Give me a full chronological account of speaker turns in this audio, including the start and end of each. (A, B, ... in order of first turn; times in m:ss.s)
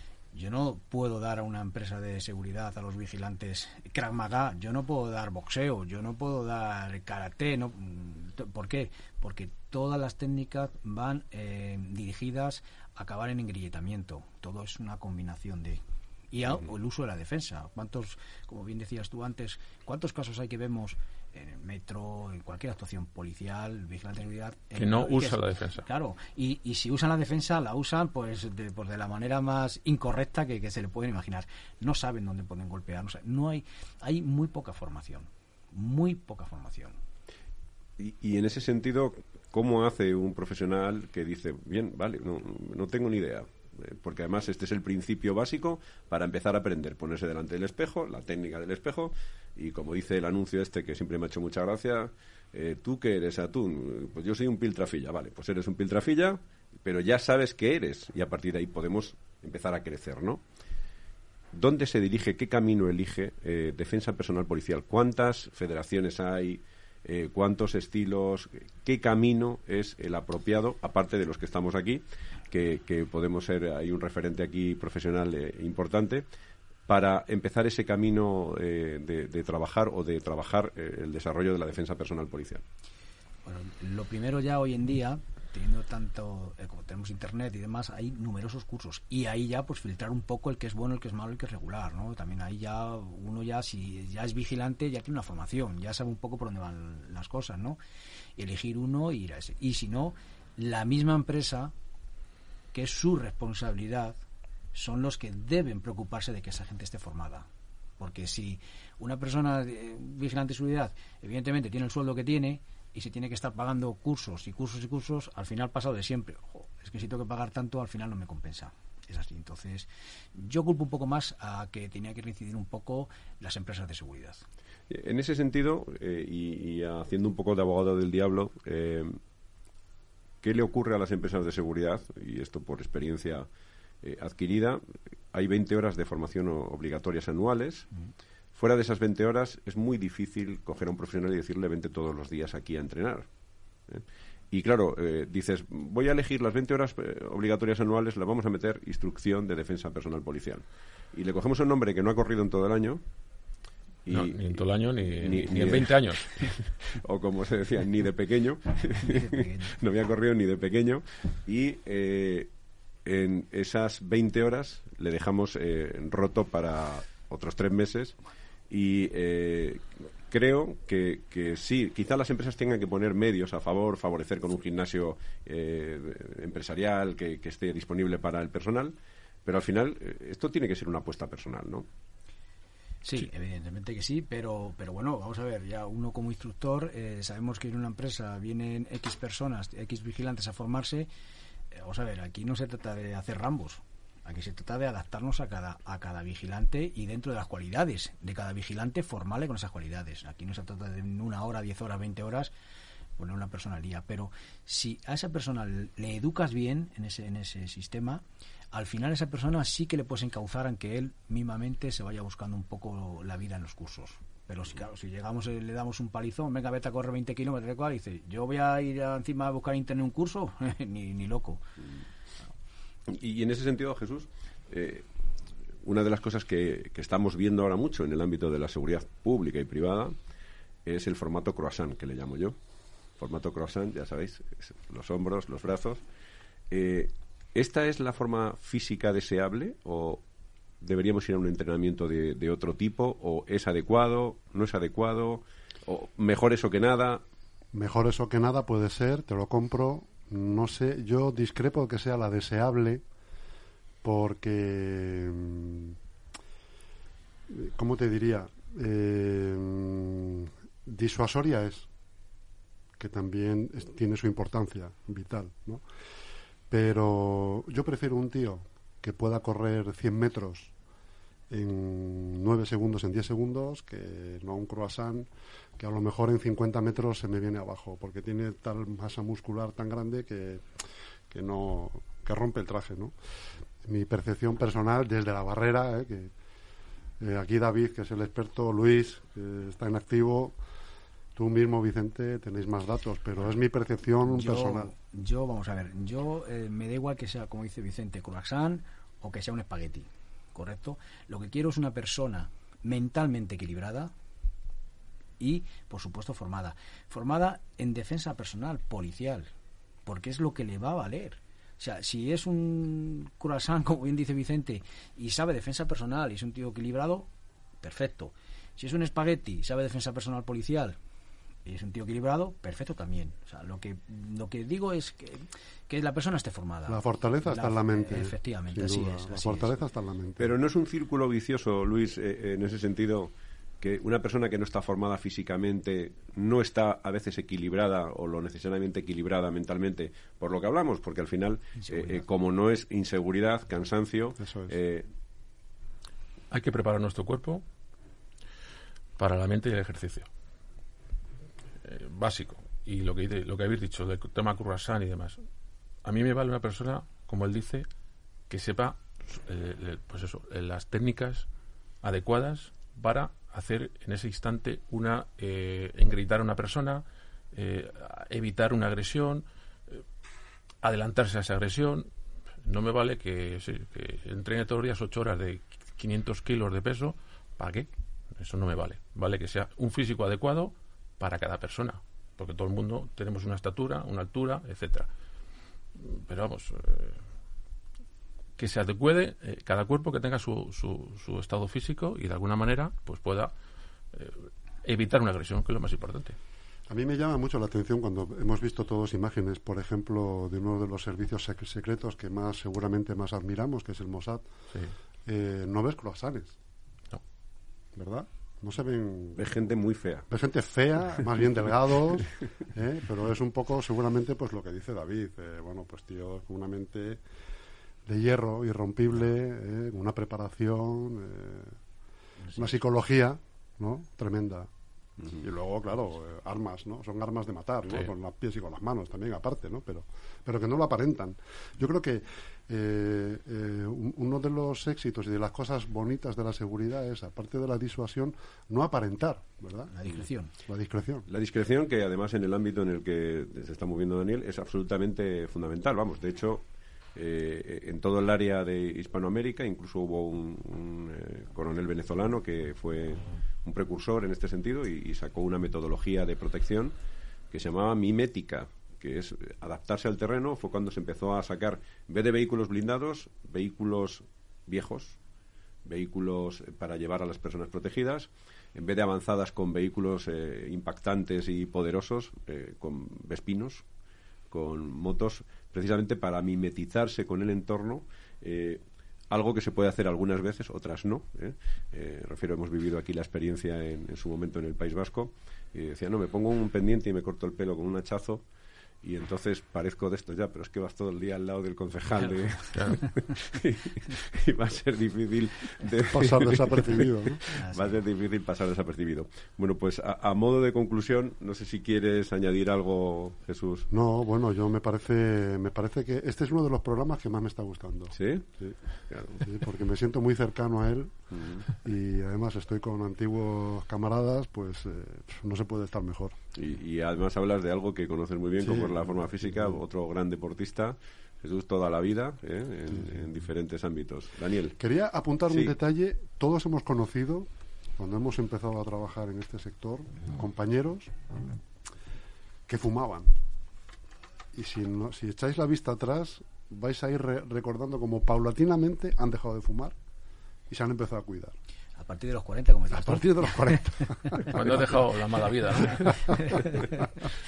0:00.3-0:37.0 A
0:24.8-0:25.8 B
0:38.0-1:00.4 C
1:01.5-1:16.2 C
1:16.9-1:22.6 C
1:23.4-1:37.8 A
1:38.4-1:41.7 A
1:42.7-1:44.2 A
1:44.7-1:47.5 A
1:48.0-2:04.4 A
2:04.9-2:09.2 C
2:10.4-2:13.5 C
2:14.0-2:17.9 C
2:18.5-2:23.3 C
2:23.9-2:33.0 C
2:34.0-2:42.5 C
2:34.1-2:36.6 B
2:39.1-2:39.7 A
2:43.0-2:48.2 C
2:48.7-3:01.9 C
3:03.0-3:11.1 A
3:11.7-3:22.5 A
3:23.2-3:41.6 A
3:43.1-3:45.0 C
3:45.8-3:50.1 C
3:50.8-3:52.6 C
3:53.2-3:56.0 C
3:56.7-4:00.2 C
4:00.8-4:07.2 C
4:07.7-4:13.0 D
4:14.0-4:16.0 D
4:17.5-4:21.9 D
4:23.0-4:25.8 D
4:26.7-4:30.7 D
4:31.5-4:40.6 D
4:41.3-4:43.1 D
4:43.8-4:46.3 D
4:47.2-4:50.6 D
4:51.4-4:54.9 D
4:54.2-5:04.1 A
5:05.4-5:09.5 A
5:10.0-5:17.3 A
5:17.8-5:21.0 A
5:21.6-5:29.8 A
5:26.9-5:30.5 D
5:30.4-5:45.1 C
5:41.8-5:42.1 A
5:44.4-5:44.7 D
5:46.5-5:47.6 B
5:49.2-5:50.3 B
5:51.8-5:55.4 B
5:56.0-5:57.9 B
5:58.5-6:01.5 B
6:02.0-6:10.0 B
6:10.8-6:12.1 B
6:12.6-6:25.1 B
6:26.0-6:27.2 B
6:28.6-6:33.5 B
6:34.1-6:36.4 B
6:36.9-6:44.4 D
6:45.2-6:46.6 D
6:47.9-6:49.4 D
6:49.3-6:50.3 C
6:50.3-6:57.2 D
6:58.0-7:01.8 D
7:02.5-7:04.7 D
7:05.2-7:19.9 D
7:19.9-7:20.5 A
7:20.6-7:21.3 D
7:21.3-7:36.9 C
7:37.5-7:45.2 C
7:45.8-7:53.8 C
7:54.5-8:08.4 C
8:09.0-8:23.9 C
8:16.0-8:17.4 D
8:17.5-8:17.9 A
8:23.9-8:28.8 D
8:28.1-8:28.5 C
8:29.1-8:29.5 C
8:29.3-8:36.4 D
8:31.3-8:31.6 C
8:36.5-8:44.8 C
8:38.6-8:39.7 D
8:44.8-8:51.1 D
8:45.5-8:45.7 C
8:52.7-8:53.3 D
8:54.5-9:00.0 D
9:00.7-9:01.5 D
9:02.0-9:04.4 A
9:02.9-9:04.8 D
9:04.4-9:06.6 B
9:06.1-9:07.0 D
9:06.4-9:06.7 A